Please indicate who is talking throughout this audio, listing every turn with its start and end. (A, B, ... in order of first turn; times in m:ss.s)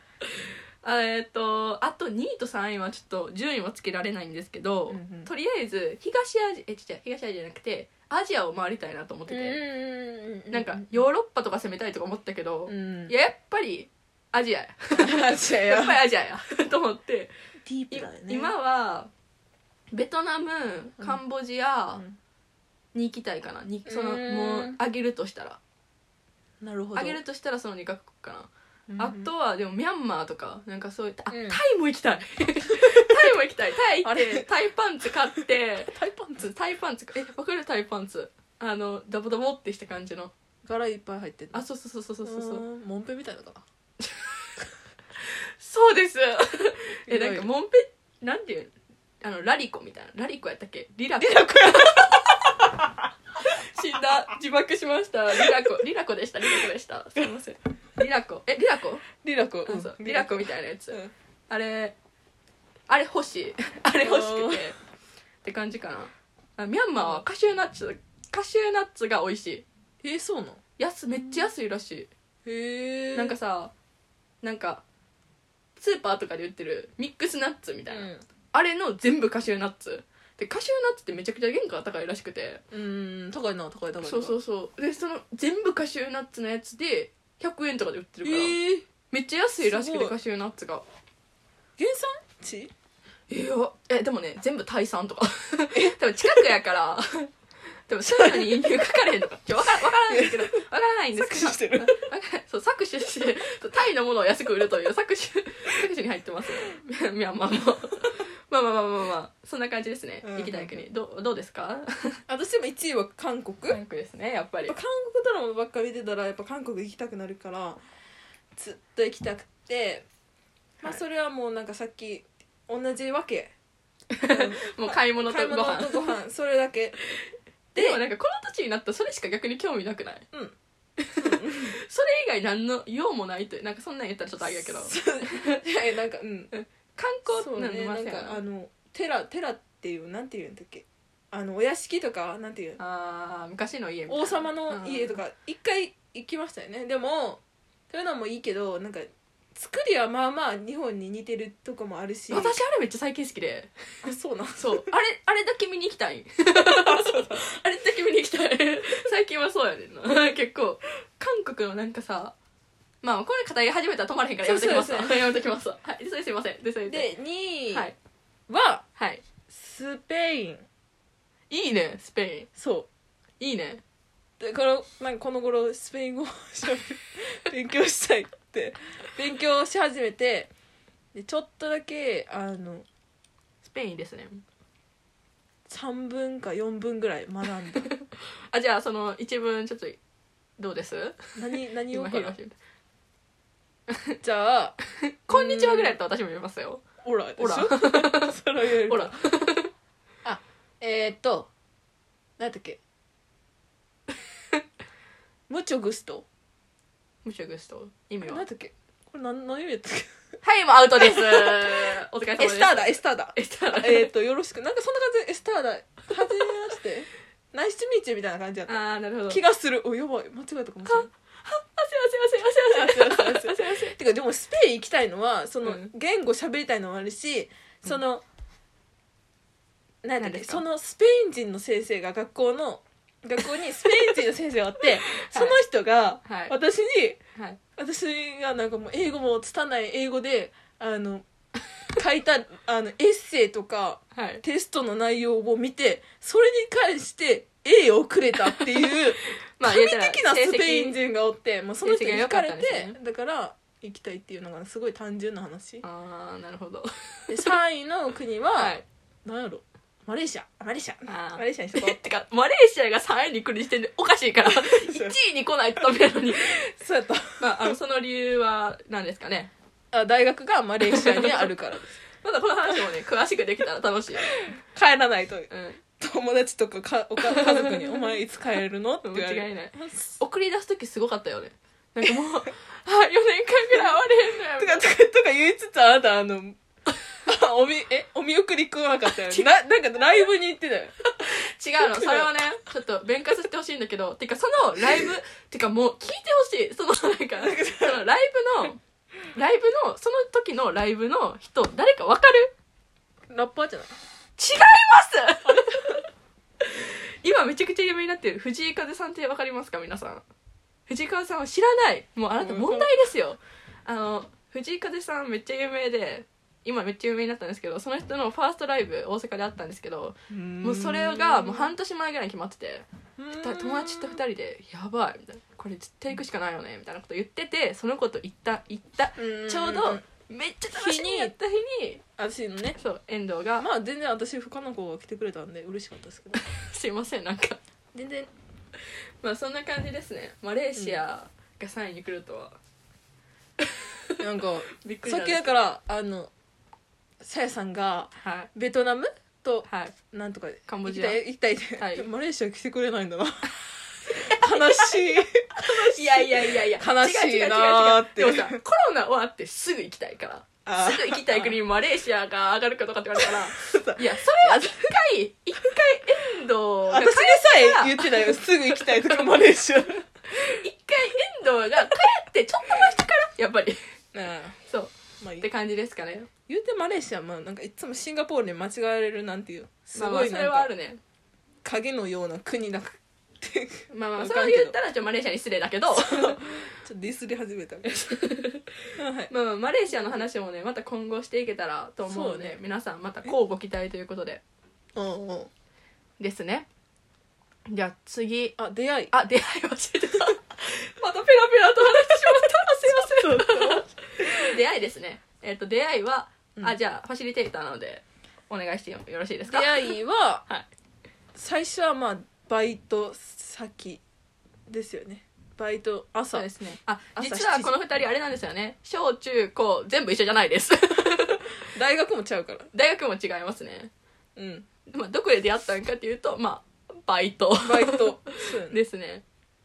0:00.3-0:09.6 A
0:04.9-0:05.3 B
0:09.3-0:11.0 B
0:10.5-0:17.3 A
0:12.7-0:13.1 B
0:14.9-0:16.0 B
0:17.6-0:18.5 B
0:17.9-0:19.1 A
0:19.9-0:22.0 A
0:22.9-0:25.6 A
0:23.9-0:24.8 B
0:26.6-0:27.2 B
0:27.0-0:40.3 A
0:28.9-0:29.3 B
0:31.3-0:31.6 B
0:32.8-0:33.1 B
0:34.0-0:34.5 B
0:35.9-0:36.5 B
0:40.6-0:41.6 B
0:41.5-0:42.6 A
0:42.2-0:43.6 B
0:44.0-0:44.3 A
0:45.2-0:52.4 A
0:47.1-0:47.5 B
0:51.2-0:52.9 B
0:53.4-0:59.1 A
0:59.2-1:01.1 B
0:59.7-1:01.0 A
1:01.5-1:02.0 A
1:02.9-1:04.8 A
1:04.0-1:04.7 B
1:05.4-1:09.7 A
1:10.0-1:10.6 B
1:10.8-1:12.1 A
1:12.4-1:13.4 B
1:13.1-1:13.7 A
1:14.4-1:14.8 A
1:15.8-1:22.6 A
1:17.9-1:18.2 B
1:22.7-1:24.4 B
1:24.0-1:28.6 A
1:28.2-1:28.9 B
1:29.1-1:30.8 A
1:29.6-1:30.2 B
1:31.8-1:32.7 B
1:33.3-1:37.2 A
1:35.7-1:36.6 B
1:37.9-1:52.2 A
1:38.1-1:38.8 B
1:39.9-1:40.6 B
1:41.2-1:42.0 B
1:50.2-1:50.8 B
1:52.3-1:53.8 B
1:53.7-1:54.8 A
1:54.7-1:57.8 B
1:58.6-2:00.1 B
2:00.8-2:03.5 B
2:04.1-2:06.1 A
2:04.2-2:07.0 B
2:07.8-2:08.0 B
2:07.8-2:10.3 A
2:11.0-2:15.6 A
2:11.2-2:11.8 B
2:14.5-2:16.5 B
2:16.5-2:18.4 A
2:17.3-2:22.8 B
2:22.8-2:25.2 A
2:24.1-2:32.6 B
2:32.3-2:33.7 A
2:34.0-2:34.9 B
2:34.6-2:42.4 A
2:36.6-2:37.4 B
2:43.0-2:47.1 A
2:44.4-2:45.4 B
2:46.9-2:47.9 B
2:48.5-2:48.8 B
2:49.0-2:49.2 A
2:49.5-2:50.6 B
2:51.5-2:52.5 A
2:52.6-2:52.9 B
2:53.4-2:53.8 A
2:54.4-3:00.5 B
3:01.1-3:02.9 B
3:03.6-3:04.4 A
3:05.7-3:07.9 B
3:07.8-3:10.0 A
3:10.6-3:11.2 A
3:11.4-3:12.4 B
3:11.9-3:12.6 A
3:13.9-3:14.2 A
3:14.2-3:14.8 B
3:15.0-3:16.8 A
3:15.3-3:16.0 B
3:17.0-3:19.1 B
3:17.4-3:18.4 A
3:18.9-3:19.7 A
3:20.2-3:21.5 B
3:22.4-3:22.8 B
3:25.5-3:26.3 B
3:27.2-3:28.4 A
3:28.2-3:30.2 B
3:30.4-3:34.1 A
3:31.0-3:41.1 B
3:38.7-3:39.4 A
3:40.9-3:44.0 A
3:42.7-3:48.2 B
3:45.6-3:45.9 A
3:50.0-3:57.2 B
3:50.2-3:50.6 A
3:53.8-3:54.1 A
3:55.1-3:55.6 A
3:56.2-3:56.5 A
3:57.8-4:01.3 B
4:02.0-4:15.8 B
4:04.2-4:04.4 A
4:08.5-4:11.0 A
4:11.8-4:13.0 A
4:15.8-4:17.5 A
4:17.3-4:22.0 B
4:18.6-4:18.8 A
4:21.1-4:26.7 A
4:24.4-4:25.2 B
4:26.4-4:27.8 B
4:27.4-4:29.5 A
4:29.9-4:31.9 B
4:30.9-4:31.5 A
4:32.2-4:34.4 A
4:34.3-4:40.2 B
4:35.5-4:35.8 A
4:37.2-4:38.1 A
4:39.0-4:44.9 A
4:44.6-4:46.6 B
4:47.2-4:51.0 B
4:49.2-4:49.5 A
4:51.0-4:58.8 A
4:51.8-4:52.4 B
4:54.8-4:55.1 B
4:57.4-4:58.0 B
4:59.3-5:02.5 A
5:03.3-5:04.0 B
5:04.4-5:06.0 A
5:05.4-5:06.0 B
5:06.6-5:10.2 A
5:10.9-5:22.8 A
5:12.4-5:12.9 B
5:20.3-5:21.7 B
5:23.2-5:24.2 B
5:23.4-5:32.0 A
5:29.2-5:30.0 B
5:30.7-5:31.3 B
5:32.2-5:32.8 B
5:32.8-5:33.7 A
5:33.6-5:36.4 B
5:36.4-5:37.6 A
5:37.9-5:38.3 B
5:38.9-5:42.6 A
5:43.6-5:44.2 A
5:44.2-5:46.3 B
5:44.7-5:45.6 A
5:47.2-5:58.6 B
5:48.2-5:48.5 A
5:49.7-5:49.9 A
5:50.7-5:51.2 A
5:51.8-5:52.1 A
5:54.1-6:09.3 A
6:00.7-6:01.6 B
6:03.2-6:04.8 B
6:06.9-6:10.6 B
6:10.3-6:13.8 A
6:14.1-6:14.6 B
6:14.7-6:16.3 A
6:15.2-6:15.5 B
6:16.5-6:20.7 B
6:20.0-6:21.0 A
6:21.6-6:24.8 B
6:23.9-6:26.7 A
6:25.9-6:28.3 B
6:27.9-6:28.8 A
6:29.0-6:29.3 B
6:29.3-6:34.4 A
6:32.0-6:32.6 B
6:35.0-6:35.5 B
6:36.2-6:36.7 A
6:37.7-6:38.6 A
6:38.6-6:39.1 B
6:39.1-6:49.9 A
6:42.3-6:44.6 B
6:49.5-6:50.4 B
6:51.4-6:54.0 B
6:54.7-6:56.5 B
6:56.3-7:01.6 A
6:57.2-6:57.8 B
7:01.7-7:02.7 B
7:02.7-7:03.9 A
7:04.4-7:04.7 B
7:04.9-7:09.2 A
7:07.6-7:08.8 B